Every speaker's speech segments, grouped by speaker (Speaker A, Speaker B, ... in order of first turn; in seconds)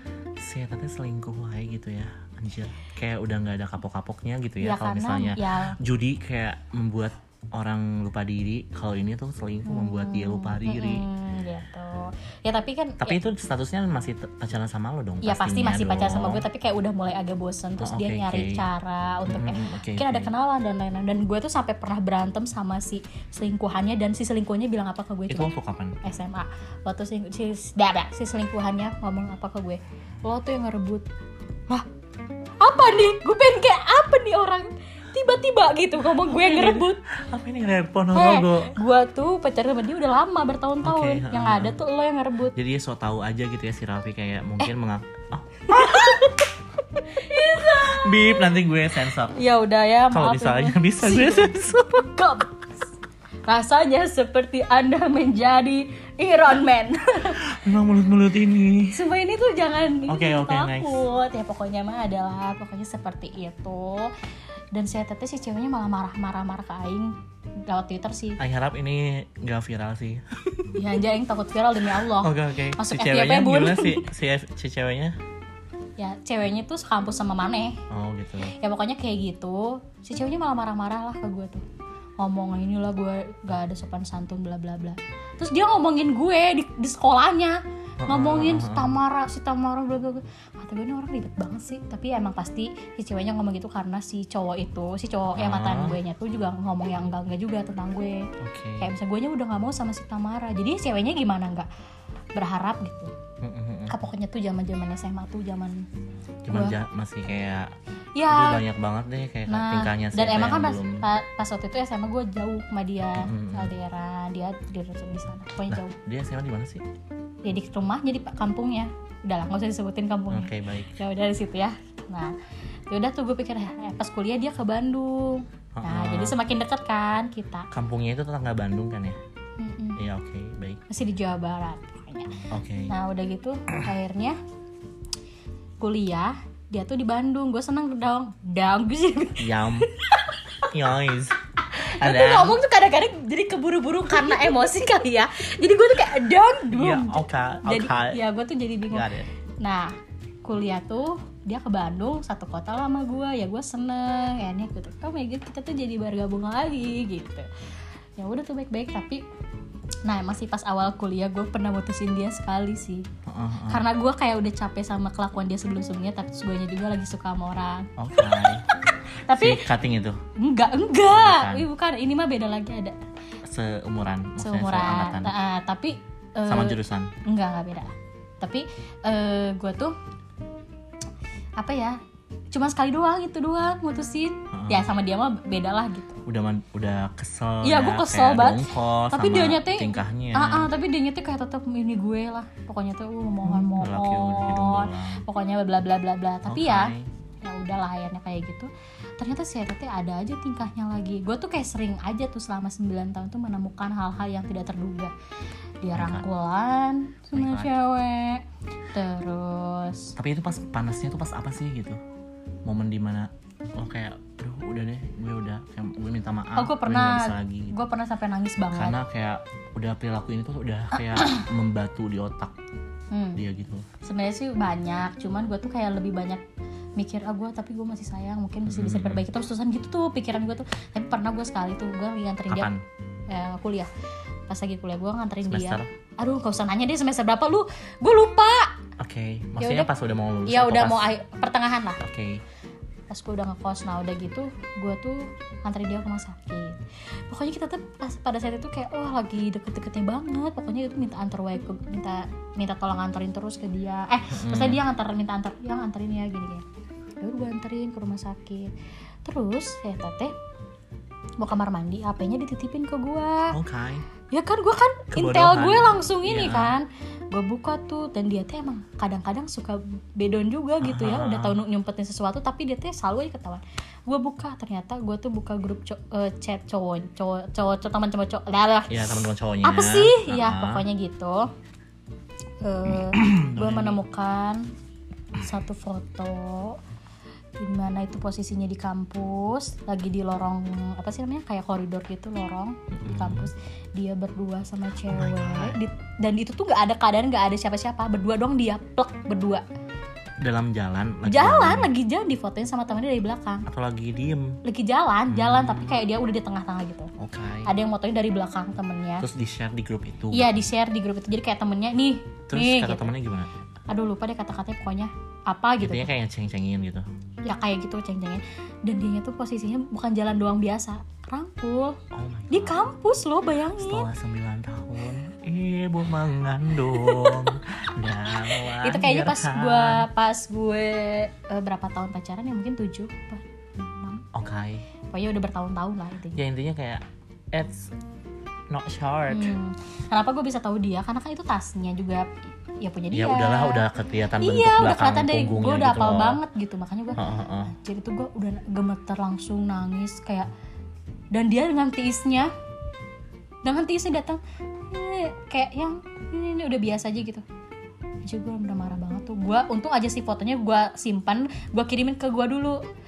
Speaker A: 0.4-11.1, 13.0-16.4, 17.8-18.6, 19.2-20.3, 25.3-26.0, 36.2-38.8, 40.8-41.8, 42.5-46.2, 47.6-49.4, 50.1-52.1, 57.3-59.0, 60.1-61.0, 68.4-70.8, 72.1-75.2, 77.9-78.5, 88.0-89.0, 95.3-96.0, 98.4-98.9, 103.4-103.9, 106.5-107.7, 108.2-111.0, 113.2-113.7, 115.7-116.8, 120.3-121.0, 125.8-126.4, 127.7-129.2, 130.0-130.8, 132.5-132.9, 139.4-139.9, 140.7-141.3, 142.0-142.6, 146.7-148.2, 148.8-149.3, 163.3-163.8, 168.0-168.6, 169.3-170.2, 171.0-171.7, 173.5-175.3, 176.5-177.1, 184.5-184.9, 186.3-190.7, 193.4-195.2, 196.5-197.1, 205.9-206.2, 207.3-207.7, 210.2-212.0, 212.7-217.8, 218.7-222.5, 223.3-223.8, 228.7-229.2, 232.5-232.8, 235.5-235.9, 239.0-241.0, 242.0-242.4, 254.3-254.8, 263.5-264.1, 265.1-266.8, 270.8-271.6, 278.9-280.8, 282.9-284.0, 292.9-293.5, 295.1-295.8, 300.4-301.9, 303.7-304.6, 305.3-306.0, 307.2-307.7, 309.2-310.7, 312.5-313.5, 315.8-317.0, 322.1-322.8, 323.7-330.1, 334.3-334.8, 336.4-337.9, 338.7-339.6, 343.1-346.4, 347.1-347.7
Speaker B: 4.6-5.7, 9.7-13.2, 15.2-25.5, 26.0-31.1, 32.6-37.0, 38.1-42.5, 45.7-48.4, 49.2-52.7, 53.5-57.4, 58.9-64.1, 64.7-67.1, 67.7-68.4, 70.7-74.1, 76.0-77.8, 78.6-81.6, 82.2-98.3, 98.8-101.7, 102.3-103.1, 103.9-105.8, 106.5-106.8, 108.1-108.6, 109.5-115.9, 117.4-122.3, 122.9-127.7, 129.6-130.0, 130.9-134.4, 135.8-140.7, 141.7-149.1, 149.6-157.5, 158.2-159.2, 160.1-163.1, 163.7-168.4, 168.9-169.6, 170.4-173.0, 174.4-179.9, 181.6-182.0, 182.5-186.2, 187.6-205.1, 205.8-210.1, 216.6-218.9, 220.9-221.5, 223.1-223.4, 224.0-226.4, 227.0-232.7, 233.3-233.9, 234.5-238.8, 239.6-239.9, 240.5-242.0, 243.1-256.6, 257.2-258.7, 259.2-260.3, 261.4-263.5, 264.3-279.1, 279.6-281.5, 282.6-284.6, 285.4-286.8, 287.6-299.6, 301.2-303.6, 304.6-307.1, 307.6-309.2, 310.3-313.1, 313.9-316.1, 317.4-322.0, 322.5-324.1, 326.9-327.5, 328.7-334.2, 335.1-336.4, 339.3-342.3, 342.8-343.8, 344.4-350.5, 351.3-352.5, 353.6-357.4, 358.2-362.8